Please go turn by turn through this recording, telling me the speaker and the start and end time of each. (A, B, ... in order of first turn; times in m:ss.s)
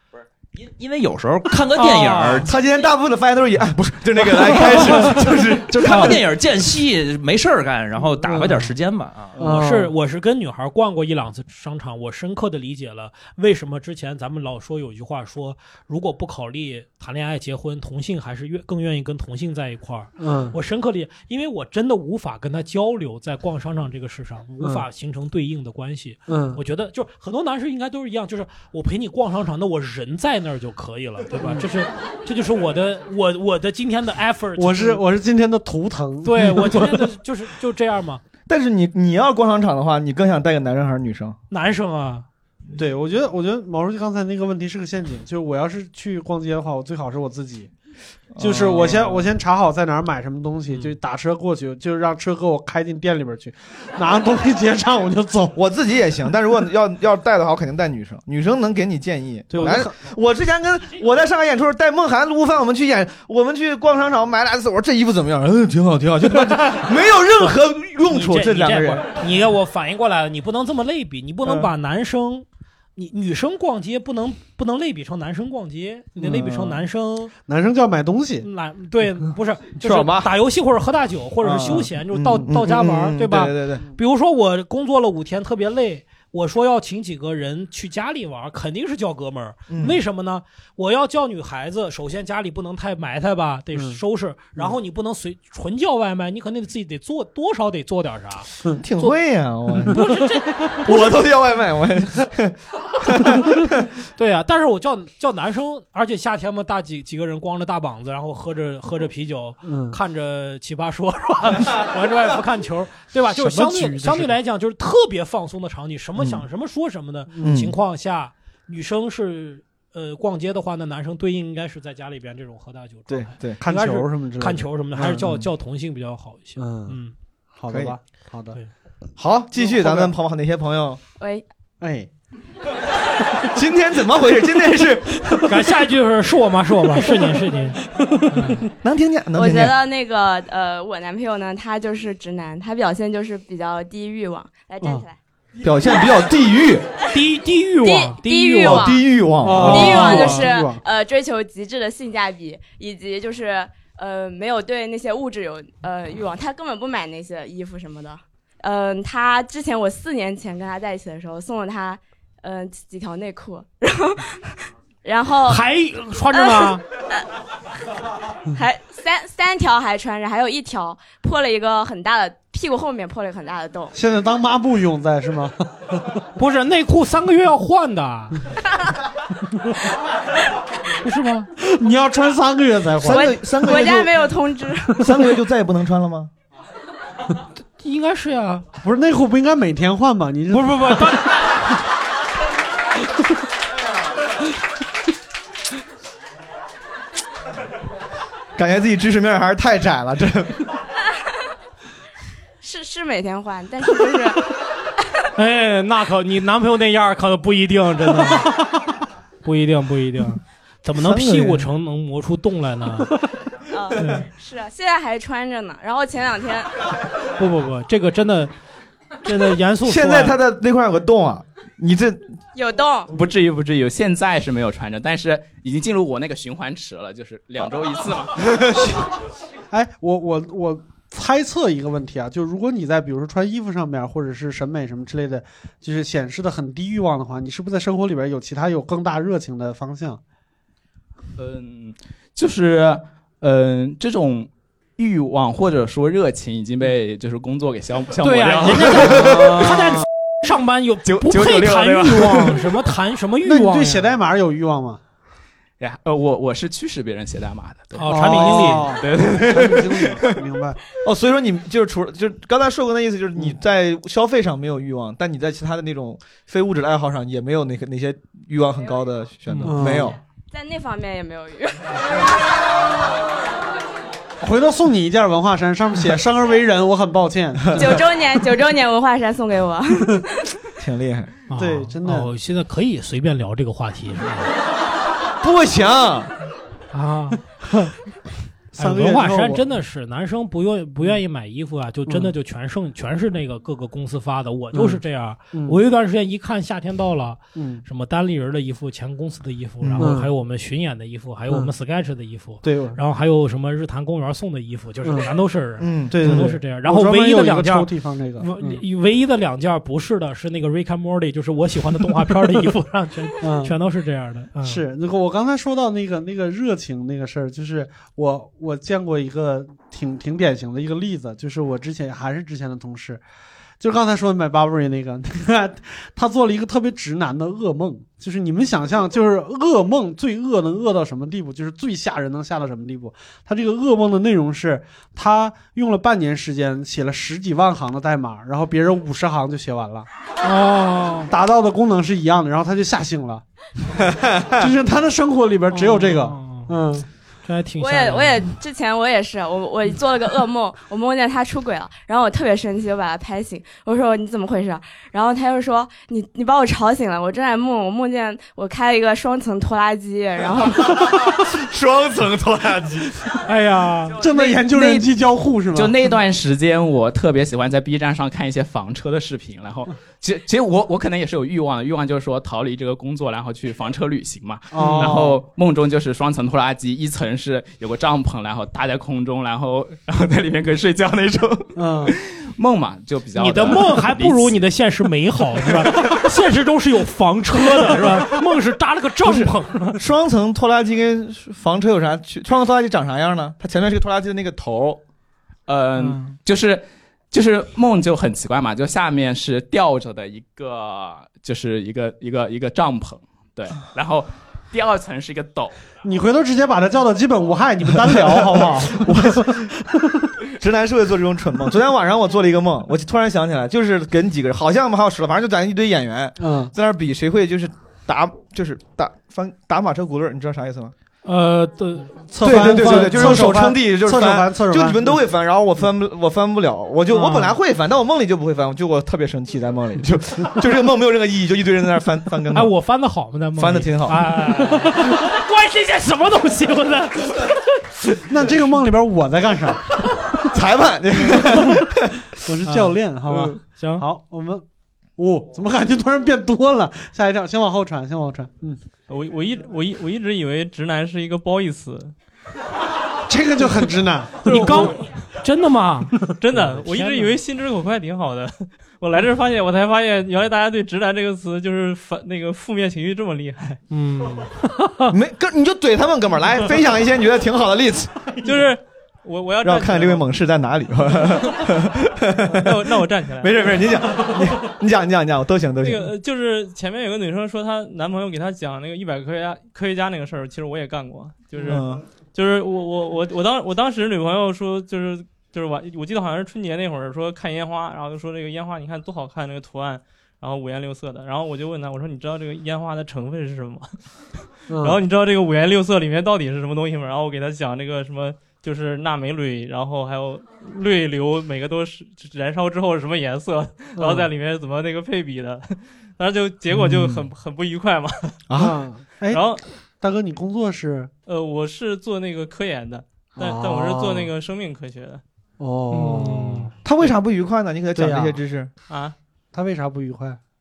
0:00.6-0:02.5 A
0:01.8-0:02.5 B
0:02.4-0:06.2 C
0:05.7-0:09.3 A
0:08.3-0:08.7 D
0:09.4-0:09.9 D
0:09.4-0:35.0 B
0:20.2-0:20.6 D
0:26.3-0:26.6 D
0:31.4-0:31.7 D
0:34.6-0:37.1 D
0:36.2-0:38.2 B
0:38.5-0:41.4 C
0:41.5-0:42.3 B
0:42.7-0:47.7 D
0:48.4-0:49.2 C
0:48.4-0:55.6 D
0:55.6-1:09.1 C
0:59.5-1:00.0 D
1:08.1-1:17.3 B
1:16.2-1:16.8 C
1:17.5-1:18.5 D
1:18.4-1:39.1 B
1:19.8-1:20.3 C
1:21.4-1:23.8 C
1:29.7-1:30.0 C
1:33.7-1:34.0 D
1:38.8-1:40.1 C
1:39.9-1:41.1 B
1:40.8-1:43.7 C
1:44.2-2:07.2 B
1:49.6-1:50.0 D
1:53.3-1:54.4 D
1:57.3-1:57.7 D
1:57.4-1:57.7 C
2:03.1-2:03.6 C
2:03.6-2:05.4 D
2:06.6-2:07.0 D
2:07.6-2:08.6 D
2:07.7-2:08.0 C
2:09.2-2:11.0 C
2:09.6-2:10.1 D
2:11.2-2:11.4 E
2:11.8-2:12.1 D
2:13.5-2:15.4 C
2:15.5-2:18.7 B
2:18.8-2:19.8 C
2:19.3-2:25.2 E
2:25.6-2:26.8 C
2:27.1-2:29.0 B
2:27.8-2:29.0 E
2:28.6-2:30.4 C
2:29.4-2:30.8 D
2:29.5-2:30.5 B
2:29.7-2:45.6 E
2:45.4-2:46.8 B
2:46.3-2:47.2 E
2:48.5-2:53.9 E
2:53.9-2:56.0 D
2:56.4-2:58.4 B
3:01.0-3:01.5 B
3:01.6-3:03.4 D
3:03.0-3:04.2 C
3:03.1-3:05.0 E
3:04.9-3:06.3 C
3:07.8-3:08.7 B
3:08.8-3:11.3 D
3:10.5-3:11.5 B
3:18.6-3:20.6 C
3:22.6-3:24.5 E
3:25.4-3:28.5 B
3:29.4-3:33.1 B
3:31.0-3:31.7 C
3:33.7-3:36.7 E
3:34.0-3:34.3 B
3:37.4-3:38.5 B
3:39.2-3:40.4 B
3:39.8-3:42.3 C
3:42.5-3:43.1 E
3:43.1-3:48.4 F
3:48.5-3:48.9 C
3:49.7-4:00.2 D
4:01.4-4:09.5 F
4:08.2-4:14.2 B
4:08.7-4:09.4 C
4:09.2-4:10.0 D
4:11.1-4:12.4 C
4:11.4-4:12.1 F
4:13.4-4:15.0 D
4:15.8-4:19.6 F
4:17.9-4:19.0 B
4:18.1-4:20.8 D
4:19.3-4:20.2 C
4:21.0-4:30.2 C
4:29.6-4:30.2 D
4:30.5-4:32.4 E
4:34.4-4:38.0 D
4:37.8-4:38.0 C
4:37.8-4:40.4 E
4:40.8-4:41.3 C
4:41.5-4:44.5 B
4:41.5-4:42.3 D
4:45.4-4:46.3 C
4:46.9-4:47.4 B
4:48.7-4:49.6 D
4:48.8-5:14.8 B
4:52.1-4:52.3 D
4:54.7-4:55.0 D
4:55.5-4:55.8 D
4:57.6-4:57.8 D
4:59.8-5:00.1 C
5:00.0-5:00.3 D
5:02.6-5:03.0 D
5:05.8-5:06.4 C
5:06.1-5:08.8 D
5:13.4-5:13.8 D
5:14.6-5:23.2 D
5:23.8-5:40.1 D
5:40.4-5:41.3 B
5:41.3-5:43.4 D
5:44.6-5:47.1 D
5:45.7-5:46.7 B
5:47.4-5:48.5 B
5:47.8-6:01.0 E
6:01.5-6:03.2 C
6:03.4-6:04.2 B
6:04.1-6:06.1 D
6:04.3-6:05.1 F
6:05.7-6:24.6 F
6:14.7-6:15.4 D
6:14.8-6:15.2 B
6:21.8-6:22.2 D
6:23.4-6:30.0 B
6:29.3-6:35.0 C
6:35.7-6:45.7 F
6:46.0-6:50.3 D
6:48.4-6:49.6 C
6:50.6-7:00.9 C
6:56.4-6:56.7 D
7:01.2-7:03.5 B
7:02.3-7:05.2 D
7:02.4-7:12.7 C
7:07.1-7:07.5 D
7:12.5-7:17.6 B
7:13.6-7:14.2 C
7:18.3-7:19.8 D
7:20.5-7:21.9 C
7:22.4-7:24.6 D
7:22.7-7:24.1 B
7:25.2-7:28.8 D
7:29.1-7:32.1 G
7:33.3-7:35.0 D
7:34.4-7:37.4 B
7:34.5-7:35.0 G
7:36.4-7:43.8 G
7:43.9-7:45.1 B
7:45.1-7:48.4 C
7:48.4-7:50.2 G
7:49.6-7:56.1 C
7:52.6-7:53.8 G
7:55.8-8:13.9 G
8:01.6-8:02.1 C
8:14.7-8:15.0 D
8:14.8-8:28.4 G
8:24.0-8:24.3 D
8:28.5-8:28.8 C
8:28.5-8:29.4 D
8:29.3-8:29.6 G
8:30.0-8:31.1 D
8:31.3-8:35.2 G
8:33.4-8:34.3 D
8:35.6-8:36.7 D
8:35.9-8:36.7 B
8:36.8-8:38.7 C
8:37.9-8:38.4 D
8:38.9-8:39.2 G
8:39.5-8:40.4 D